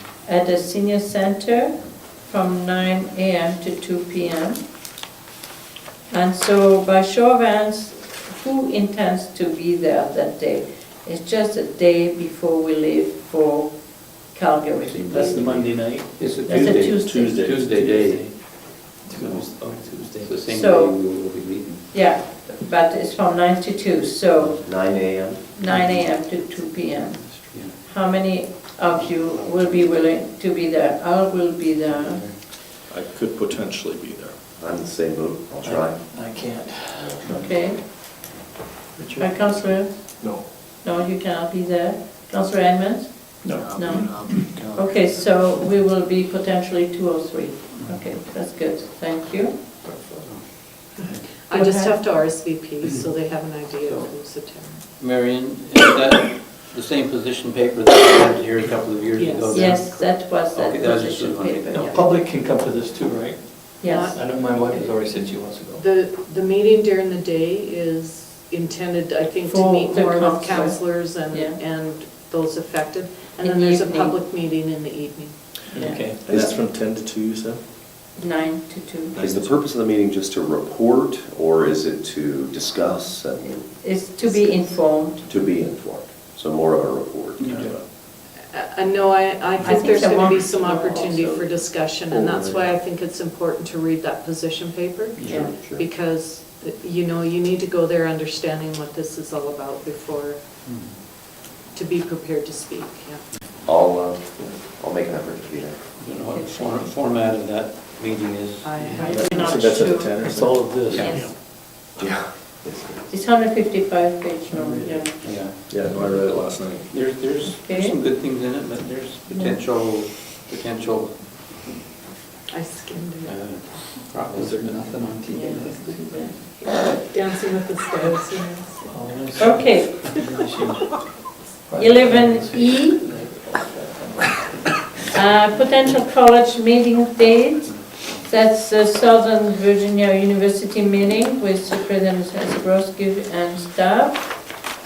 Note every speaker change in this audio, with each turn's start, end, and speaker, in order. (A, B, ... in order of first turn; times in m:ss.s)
0:00.2-0:04.6 A
0:06.1-0:13.8 A
0:14.3-0:15.5 A
0:14.8-0:21.9 B
0:15.1-0:16.7 C
0:16.5-0:17.5 A
0:17.4-0:20.4 C
0:20.5-0:21.2 A
0:21.9-0:24.9 A
0:24.5-0:25.5 D
0:25.5-0:32.2 A
0:25.7-0:26.0 B
0:27.2-0:27.8 B
0:29.3-0:29.8 B
0:31.9-0:32.4 B
0:32.9-0:34.4 E
0:34.6-0:36.0 D
0:35.6-0:37.2 C
0:37.0-0:37.5 D
0:37.3-0:37.9 A
0:39.2-0:49.6 A
0:43.5-0:44.8 D
0:43.9-0:44.4 C
0:49.8-0:50.4 B
0:51.2-0:54.8 F
0:51.5-0:51.9 A
0:53.8-0:54.1 B
0:55.0-1:02.0 B
0:59.1-1:00.0 F
0:59.5-1:02.0 A
1:01.7-1:05.8 C
1:03.8-1:04.2 A
1:03.8-1:04.9 F
1:05.8-1:15.3 F
1:09.4-1:11.6 A
1:13.4-1:14.2 A
1:15.7-1:16.2 C
1:15.7-1:16.0 A
1:16.2-1:17.6 E
1:18.2-1:19.2 A
1:19.1-1:19.5 E
1:19.2-1:23.7 D
1:23.7-1:25.2 A
1:24.2-1:25.1 F
1:25.2-1:27.8 D
1:27.4-1:27.7 C
1:28.5-1:40.4 F
1:29.6-1:31.5 A
1:32.1-1:32.7 E
1:35.2-1:35.5 A
1:35.3-1:35.9 D
1:40.6-1:41.0 B
1:41.7-1:43.2 F
1:43.6-1:45.8 D
1:46.0-1:49.4 B
1:46.3-1:46.9 A
1:48.6-1:49.5 F
1:48.9-1:50.2 A
1:49.0-1:50.7 E
1:49.3-1:51.2 C
1:50.8-1:51.3 A
1:50.9-1:51.2 B
1:52.0-1:53.1 D
1:53.1-1:55.1 A
1:54.6-2:01.3 B
1:55.7-1:56.8 E
1:57.4-1:58.0 A
1:59.3-1:59.6 A
2:02.5-2:03.5 F
2:03.2-2:05.9 B
2:04.3-2:06.2 C
2:05.3-2:06.6 A
2:05.7-2:08.9 F
2:08.9-2:10.9 C
2:09.4-2:10.2 A
2:11.7-2:14.5 C
2:11.7-2:13.0 A
2:15.1-2:24.3 A